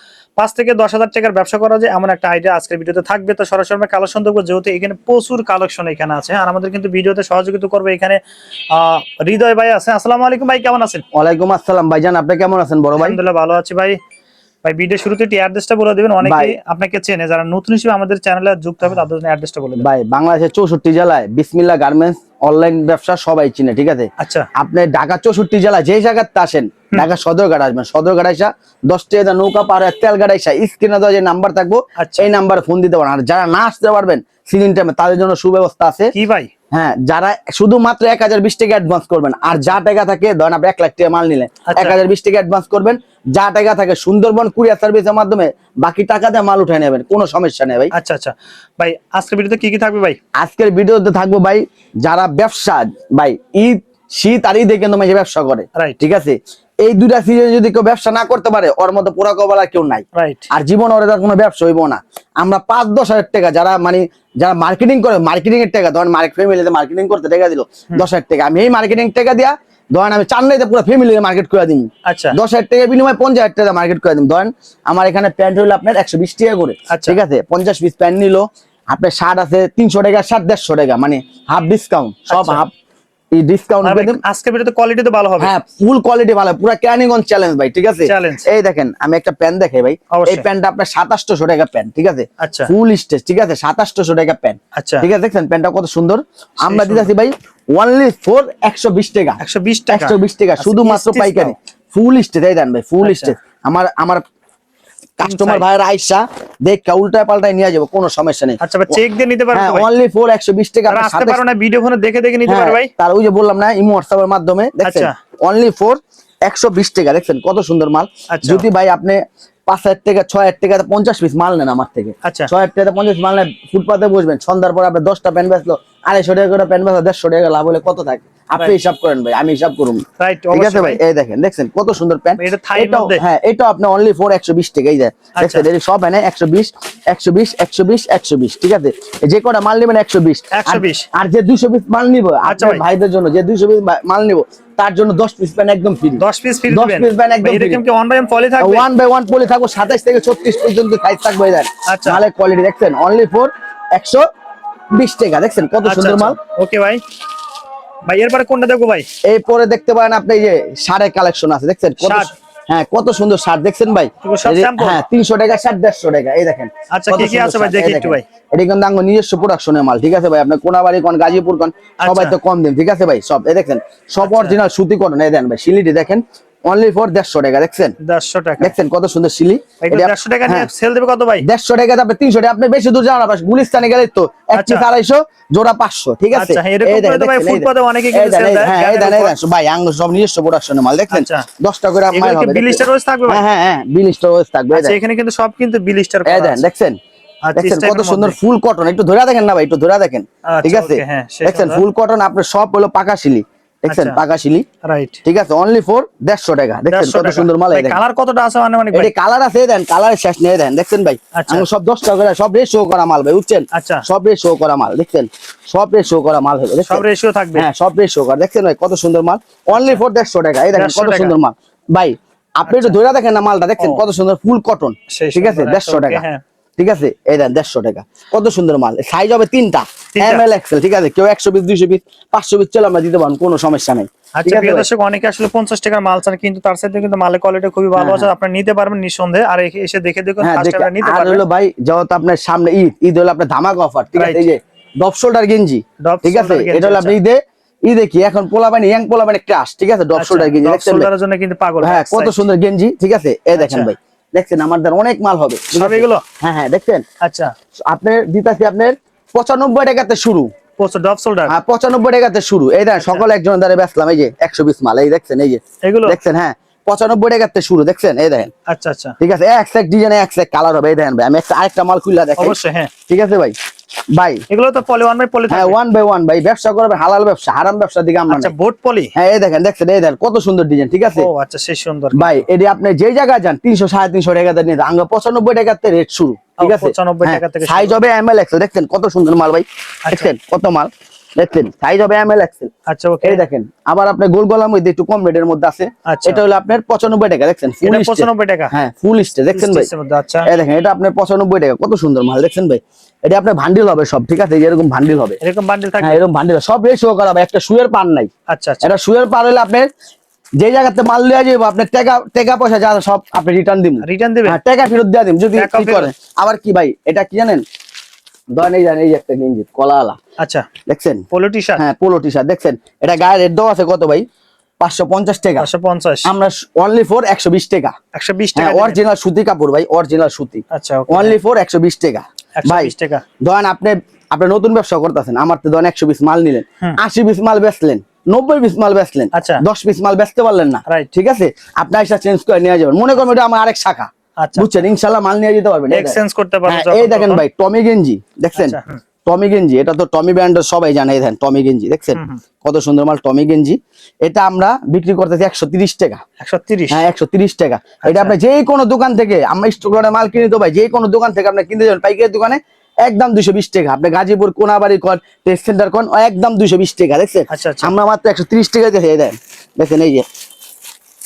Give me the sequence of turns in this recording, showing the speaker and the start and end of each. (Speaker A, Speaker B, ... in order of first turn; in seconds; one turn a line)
Speaker A: 0.4-8.2
Speaker A: 8.7-11.0
Speaker B: 11.1-13.2
Speaker A: 13.0-14.0
Speaker A: 14.6-19.9
Speaker B: 16.2-16.5
Speaker B: 19.8-36.1
Speaker A: 24.2-24.5
Speaker A: 32.0-32.3
Speaker A: 36.1-36.5
Speaker B: 36.7-47.9
Speaker A: 41.6-42.0
Speaker A: 47.9-50.2
Speaker B: 50.4-82.7
Speaker A: 60.1-60.5
Speaker A: 72.0-72.4
Speaker A: 76.9-77.2
Speaker A: 82.3-82.6
Speaker B: 83.3-84.2
Speaker A: 83.8-85.5
Speaker B: 85.4-104.2
Speaker A: 88.0-88.5
Speaker A: 90.1-90.5
Speaker A: 92.4-92.7
Speaker A: 94.8-95.0
Speaker A: 96.6-97.1
Speaker A: 99.4-101.5
Speaker A: 103.0-103.3
Speaker B: 105.2-109.0
Speaker A: 105.2-105.6
Speaker A: 108.6-109.9
Speaker B: 109.5-111.4
Speaker A: 110.9-112.9
Speaker B: 112.5-147.8
Speaker A: 114.8-115.1
Speaker A: 118.3-118.7
Speaker A: 122.2-122.5
Speaker A: 130.2-131.0
Speaker A: 132.4-133.2
Speaker A: 135.3-135.7
Speaker A: 140.5-141.1
Speaker A: 142.4-142.8
Speaker A: 146.2-148.9
Speaker B: 148.6-154.2
Speaker A: 151.9-152.2
Speaker B: 154.9-156.4
Speaker A: 155.8-157.0
Speaker A: 158.1-159.1
Speaker B: 159.2-177.9
Speaker A: 162.0-162.3
Speaker A: 164.2-165.0
Speaker A: 166.9-168.2
Speaker A: 172.0-172.4
Speaker A: 174.2-174.6
Speaker A: 178.0-178.7
Speaker B: 178.6-180.7
Speaker A: 179.8-181.4
Speaker B: 181.4-195.0
Speaker A: 184.5-184.9
Speaker A: 186.3-189.3
Speaker A: 191.1-191.5
Speaker A: 192.1-193.4
Speaker A: 194.7-196.7
Speaker B: 196.2-196.9
Speaker A: 197.4-198.4
Speaker B: 197.6-204.7
Speaker A: 200.5-201.8
Speaker A: 203.9-204.2
Speaker A: 204.8-205.2
Speaker B: 205.2-208.0
Speaker A: 206.9-209.1
Speaker B: 208.9-217.0
Speaker A: 211.3-211.7
Speaker A: 213.7-214.0
Speaker A: 216.8-217.7
Speaker B: 217.5-226.2
Speaker A: 219.7-220.0
Speaker A: 220.7-221.4
Speaker A: 222.7-223.0
Speaker A: 223.8-224.0
Speaker A: 225.1-226.4
Speaker B: 226.8-234.8
Speaker A: 230.1-230.4
Speaker A: 234.4-241.4
Speaker B: 237.9-238.3
Speaker B: 240.4-251.1
Speaker A: 244.2-244.5
Speaker A: 246.0-247.2
Speaker A: 250.2-252.4
Speaker B: 251.8-257.0
Speaker A: 253.6-253.9
Speaker A: 255.7-256.2
Speaker A: 257.2-257.5
Speaker B: 257.9-260.5
Speaker A: 260.8-261.5
Speaker B: 261.5-268.5
Speaker A: 263.0-263.2
Speaker A: 265.8-266.2
Speaker A: 268.7-269.1
Speaker B: 269.2-272.6
Speaker A: 272.4-272.9
Speaker B: 273.1-273.5
Speaker B: 274.1-274.4
Speaker A: 274.5-275.8
Speaker B: 275.5-278.5
Speaker A: 278.3-279.1
Speaker B: 279.1-281.3
Speaker A: 281.1-282.5
Speaker B: 282.1-292.7
Speaker A: 286.6-288.0
Speaker A: 290.1-290.3
Speaker A: 292.9-293.4
Speaker B: 293.2-299.9
Speaker A: 296.1-296.4
Speaker A: 297.8-298.7
Speaker A: 299.5-300.5
Speaker B: 300.4-305.4
Speaker A: 305.4-306.2
Speaker B: 306.0-308.3
Speaker A: 308.5-308.9
Speaker B: 308.8-309.9
Speaker B: 310.6-317.6
Speaker A: 314.0-314.6
Speaker A: 315.5-316.1
Speaker B: 318.5-320.2
Speaker A: 320.4-320.7
Speaker B: 320.9-324.2
Speaker A: 321.3-321.8
Speaker B: 324.8-325.7
Speaker A: 325.6-326.3
Speaker B: 326.2-327.9
Speaker A: 328.1-329.0
Speaker B: 328.5-356.2
Speaker A: 330.7-331.4
Speaker A: 332.6-333.2
Speaker A: 339.3-339.6
Speaker A: 344.4-344.8
Speaker A: 345.9-347.4
Speaker A: 348.6-349.0
Speaker A: 352.1-352.4
Speaker A: 356.4-357.0
Speaker B: 356.9-370.2
Speaker A: 358.0-358.4
Speaker A: 367.5-367.9